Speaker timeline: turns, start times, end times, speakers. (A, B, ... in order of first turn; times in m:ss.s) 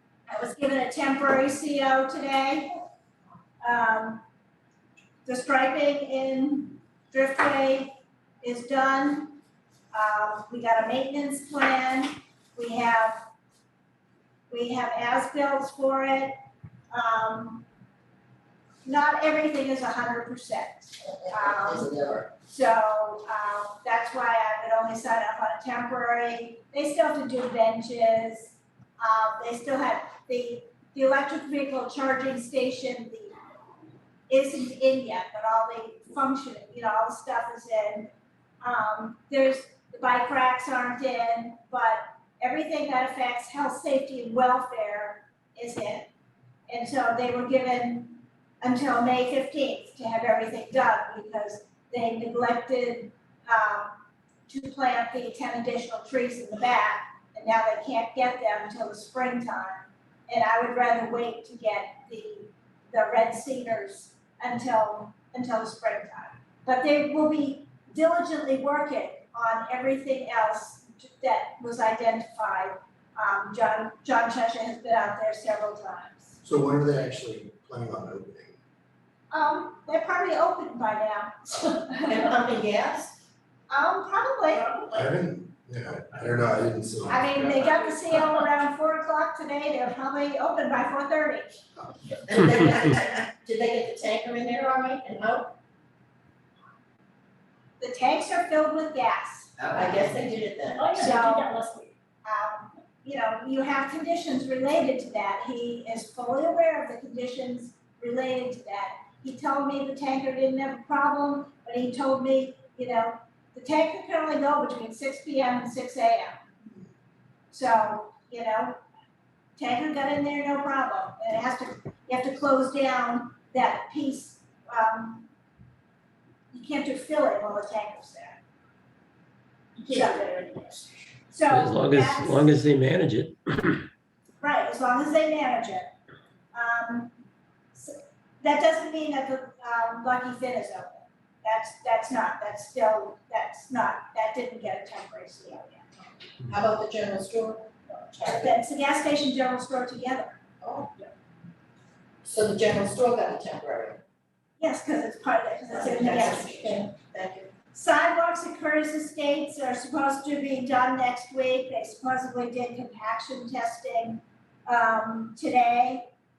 0:00.3-0:02.9 A
0:03.6-0:04.2 A
0:05.2-0:09.4 A
0:09.9-0:13.2 A
0:14.5-0:16.3 A
0:16.9-0:17.6 A
0:18.8-0:33.3 A
0:21.6-0:22.2 B
0:34.3-0:46.1 A
0:46.7-1:16.4 A
1:16.4-1:18.6 C
1:19.3-1:22.3 A
1:21.9-1:23.2 B
1:23.7-1:24.7 A
1:24.5-1:25.1 D
1:24.9-1:27.4 C
1:27.1-1:31.6 A
1:32.2-1:35.5 B
1:37.8-1:39.5 A
1:39.6-1:41.0 B
1:40.7-1:41.9 D
1:41.0-1:41.5 A
1:42.2-1:56.4 A
1:57.5-1:58.8 A
1:59.6-2:05.3 A
2:06.5-2:08.4 A
2:09.8-2:10.9 D
2:09.9-2:10.2 A
2:11.3-2:12.6 A
2:11.5-2:13.8 E
2:14.4-2:15.9 A
2:16.5-2:17.2 A
2:17.7-2:25.9 A
2:26.5-2:28.5 B
2:28.2-2:30.4 A
2:30.6-2:31.0 B
2:32.2-2:34.0 B
2:34.6-2:36.9 A
2:35.7-2:37.5 B
2:37.7-2:46.1 A